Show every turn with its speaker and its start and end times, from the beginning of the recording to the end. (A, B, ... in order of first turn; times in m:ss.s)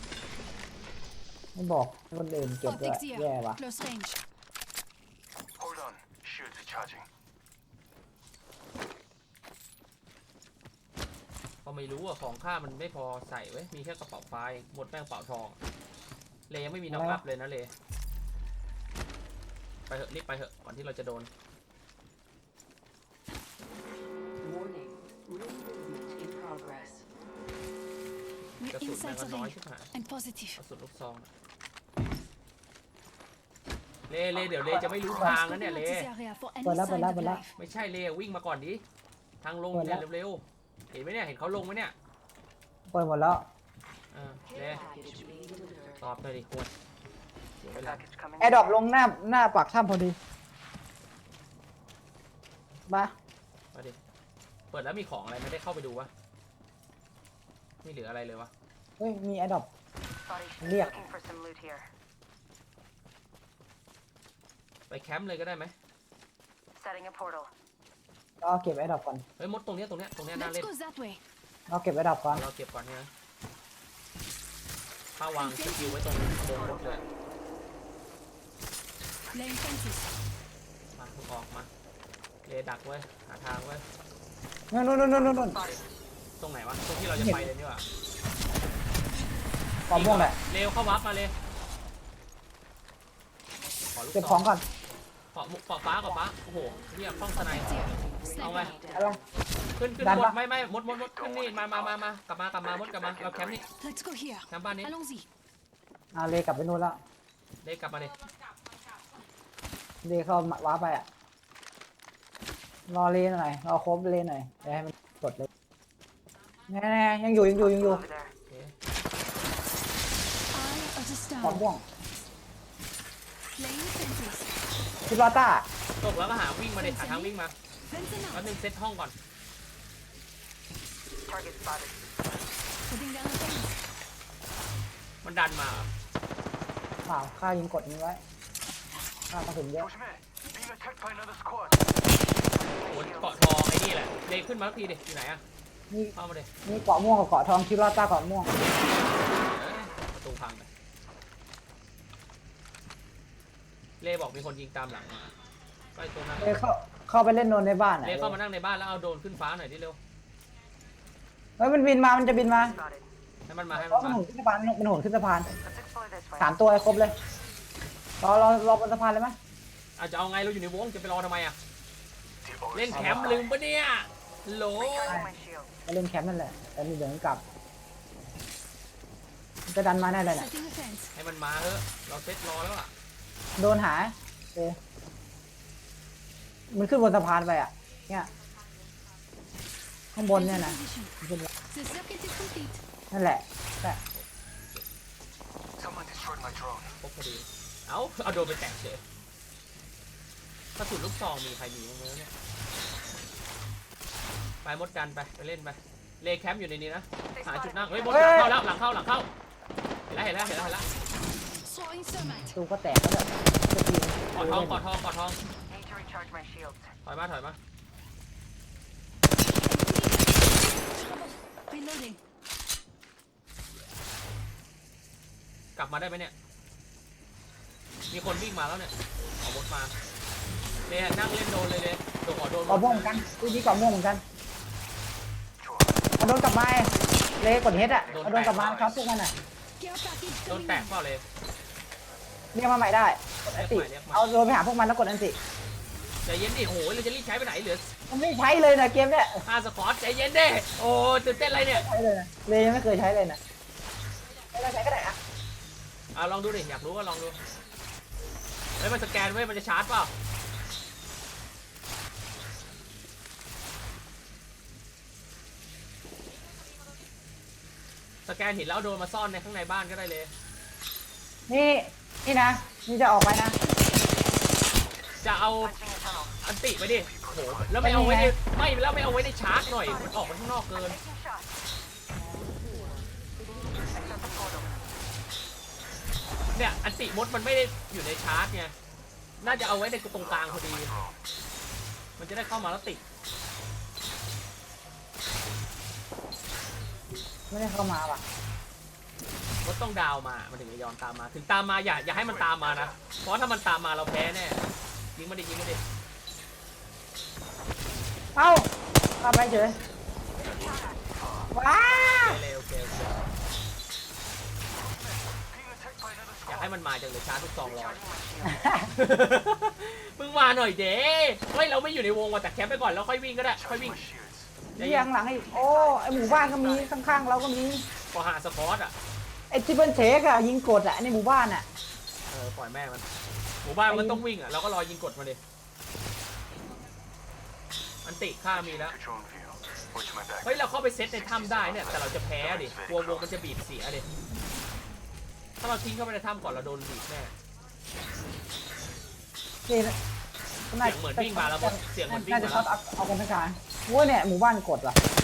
0:01.6-0:03.6 A
0:02.6-0:04.2 B
0:05.6-0:07.0 C
0:11.6-0:15.6 D
0:16.5-0:17.7 D
0:16.9-0:17.2 A
0:19.9-0:21.3 D
0:24.4-0:27.0 E
0:28.6-0:30.6 B
0:28.7-0:29.9 D
0:30.6-0:31.3 D
0:34.1-0:36.1 D
0:35.1-0:37.5 B
0:36.6-0:37.4 A
0:37.6-0:38.8 D
0:39.4-0:41.9 D
0:39.7-0:40.0 A
0:42.9-0:43.4 A
0:44.1-0:44.8 D
0:44.5-0:46.0 E
0:46.0-0:46.7 D
0:47.6-0:48.0 D
0:47.9-0:48.6 C
0:48.4-0:50.2 A
0:54.7-0:56.1 D
0:57.8-0:58.5 D
0:59.0-0:59.7 A
1:00.2-1:01.9 C
1:00.6-1:01.1 A
1:04.9-1:05.7 D
1:06.8-1:07.5 C
1:08.4-1:09.2 A
1:09.4-1:10.7 D
1:10.3-1:11.2 B
1:11.7-1:12.4 A
1:12.3-1:13.1 D
1:15.2-1:17.0 D
1:15.4-1:16.0 B
1:19.3-1:20.1 B
1:20.9-1:21.7 D
1:22.4-1:23.8 D
1:24.7-1:25.6 A
1:25.4-1:25.8 C
1:26.4-1:27.8 D
1:27.1-1:27.4 A
1:29.9-1:30.4 A
1:29.9-1:31.3 D
1:33.9-1:34.4 D
1:34.1-1:34.6 A
1:35.3-1:37.7 D
1:37.4-1:38.8 B
1:38.1-1:39.0 E
1:38.4-1:38.8 D
1:38.9-1:39.2 A
1:39.8-1:43.6 D
1:40.0-1:40.4 A
1:43.8-1:45.2 B
1:44.5-1:44.9 D
1:46.1-1:47.0 A
1:47.6-1:48.2 D
1:50.0-1:51.0 A
1:52.9-1:55.5 A
1:56.7-1:58.0 A
1:57.7-1:58.3 C
1:58.5-1:58.7 D
2:00.5-2:01.6 B
2:01.4-2:01.8 A
2:03.6-2:04.5 B
2:05.1-2:05.6 A
2:06.0-2:07.5 D
2:06.8-2:07.3 B
2:07.9-2:08.5 B
2:08.3-2:09.1 D
2:11.3-2:11.9 C
2:12.9-2:13.8 B
2:15.2-2:15.9 D
2:17.1-2:18.2 A
2:19.3-2:19.9 A
2:20.8-2:21.6 F
2:22.8-2:23.1 C
2:22.8-2:25.4 D
2:26.1-2:26.5 D
2:26.6-2:28.5 A
2:29.2-2:30.7 D
2:34.0-2:35.3 D
2:35.9-2:36.6 D
2:36.4-2:38.4 A
2:38.0-2:40.0 D
2:41.6-2:42.8 A
2:42.8-2:43.0 C
2:43.5-2:44.2 D
2:43.7-2:45.5 A
2:45.6-2:46.4 C
2:46.4-2:47.2 A
2:48.2-2:49.4 A
2:50.0-2:51.6 D
2:52.7-2:55.2 D
2:52.9-2:53.5 A
2:54.8-2:55.7 C
2:55.9-2:57.4 A
2:59.7-3:00.5 A
3:00.3-3:01.1 B
3:01.1-3:02.9 D
3:03.6-3:04.8 A
3:06.7-3:08.3 A
3:10.1-3:11.5 A
3:10.3-3:11.1 B
3:11.7-3:12.8 B
3:13.1-3:14.0 A
3:14.1-3:14.8 D
3:16.0-3:16.8 F
3:17.0-3:19.0 D
3:20.8-3:22.3 D
3:24.6-3:29.3 D
3:27.4-3:28.3 C
3:28.1-3:28.6 A
3:30.1-3:30.8 D
3:31.6-3:32.6 B
3:32.5-3:34.8 A
3:34.3-3:35.4 D
3:35.7-3:36.8 C
3:37.0-3:37.6 D
3:39.6-3:42.2 B
3:45.8-3:46.3 D
3:48.1-3:49.9 D
3:50.9-3:53.7 D
3:52.7-3:54.2 A
3:56.2-3:59.3 A
3:58.1-3:59.0 D
3:59.8-4:00.9 B
4:00.5-4:01.2 D
4:02.5-4:05.4 A
4:03.4-4:04.3 D
4:06.2-4:07.9 D
4:08.1-4:09.4 A
4:09.4-4:11.8 D
4:11.5-4:13.4 A
4:14.5-4:15.2 A
4:16.1-4:17.4 D
4:18.8-4:20.1 D
4:28.2-4:30.3 D
4:31.5-4:33.6 A
4:35.2-4:35.7 D
4:35.7-4:36.3 C
4:36.4-4:41.0 D
4:37.8-4:38.3 A
4:40.9-4:41.4 C
4:44.0-4:44.6 C
4:46.5-4:48.7 D
4:49.4-4:50.9 D
4:52.2-4:53.0 D
4:57.5-4:58.2 A
4:59.6-5:04.6 D
5:05.2-5:05.8 D
5:08.4-5:08.7 A
5:09.2-5:09.8 A
5:10.4-5:11.5 C
5:11.5-5:12.4 A
5:12.1-5:13.2 D
5:15.8-5:16.2 F
5:16.4-5:18.0 D
5:17.9-5:18.5 C
5:18.4-5:18.9 A
5:18.9-5:24.0 D
5:23.8-5:24.3 F
5:24.7-5:25.1 D
5:24.7-5:27.8 A
5:25.8-5:26.9 C
5:28.1-5:28.9 D
5:29.5-5:31.7 A
5:32.3-5:33.0 D
5:33.6-5:35.4 D
5:33.9-5:34.2 A
5:38.0-5:38.9 D
5:38.9-5:40.3 F
5:40.4-5:44.1 D
5:45.6-5:47.3 D
5:49.7-5:49.9 A
5:50.7-5:55.0 A
5:50.8-5:52.7 D